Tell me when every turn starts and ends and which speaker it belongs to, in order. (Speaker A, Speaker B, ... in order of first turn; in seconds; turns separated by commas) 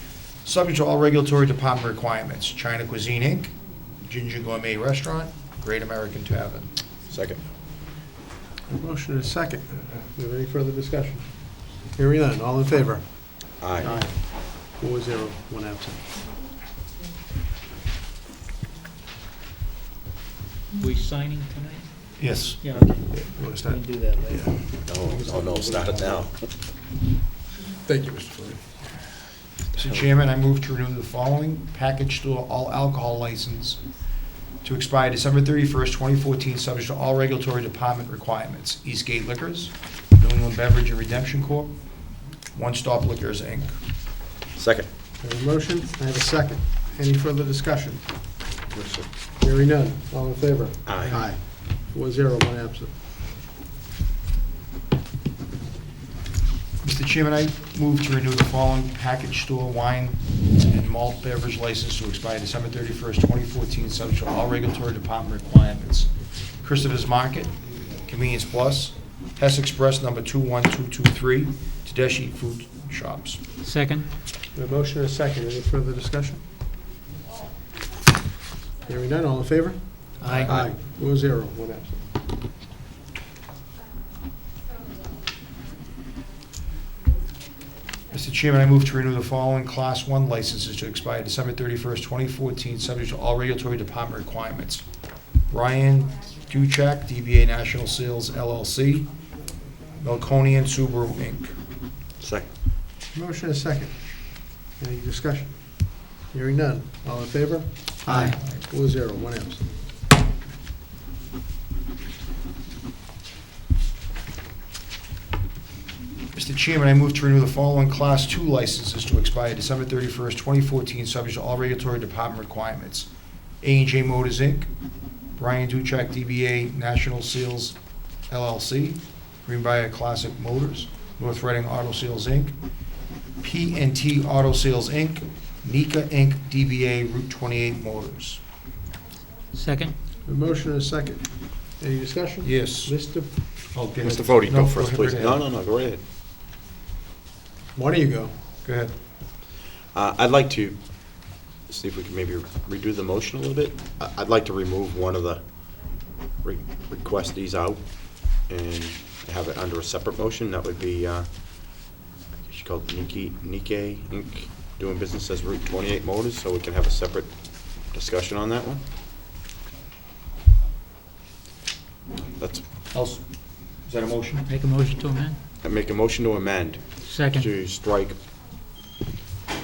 Speaker A: 0.4-6.7, Speaker B: 7.1-7.4, Speaker C: 8.7-16.1, Speaker B: 13.6-13.9, Speaker D: 20.8-24.8, Speaker A: 22.2-22.6, Speaker C: 23.1-26.3, Speaker B: 24.9-26.5, Speaker C: 27.7-28.8, Speaker A: 29.7-43.9, Speaker B: 44.5-44.9, Speaker C: 45.2-48.4, Speaker B: 48.7-49.1, Speaker C: 49.4-53.0, Speaker B: 50.9-51.2, Speaker D: 51.0-51.3, Speaker A: 56.8-73.4, Speaker D: 73.6-74.1, Speaker C: 74.5-76.5, Speaker C: 78.8-82.1, Speaker D: 80.2-80.5, Speaker A: 88.1-99.1, Speaker A: 99.9-101.6, Speaker B: 102.2-102.5, Speaker C: 103.1-109.7, Speaker D: 108.0-108.4, Speaker A: 108.0-108.7, Speaker A: 116.3-123.1, Speaker A: 123.6-124.7, Speaker A: 125.3-132.6, Speaker A: 133.4-138.4, Speaker D: 139.5-139.9, Speaker C: 140.2-143.8, Speaker A: 142.4-145.4, Speaker B: 144.0-146.0, Speaker C: 147.7-148.5, Speaker A: 148.6-149.0, Speaker B: 149.9-168.8, Speaker B: 172.3-172.6, Speaker A: 172.9-174.5, Speaker D: 174.5-175.4, Speaker B: 175.6-178.2, Speaker D: 177.0-177.5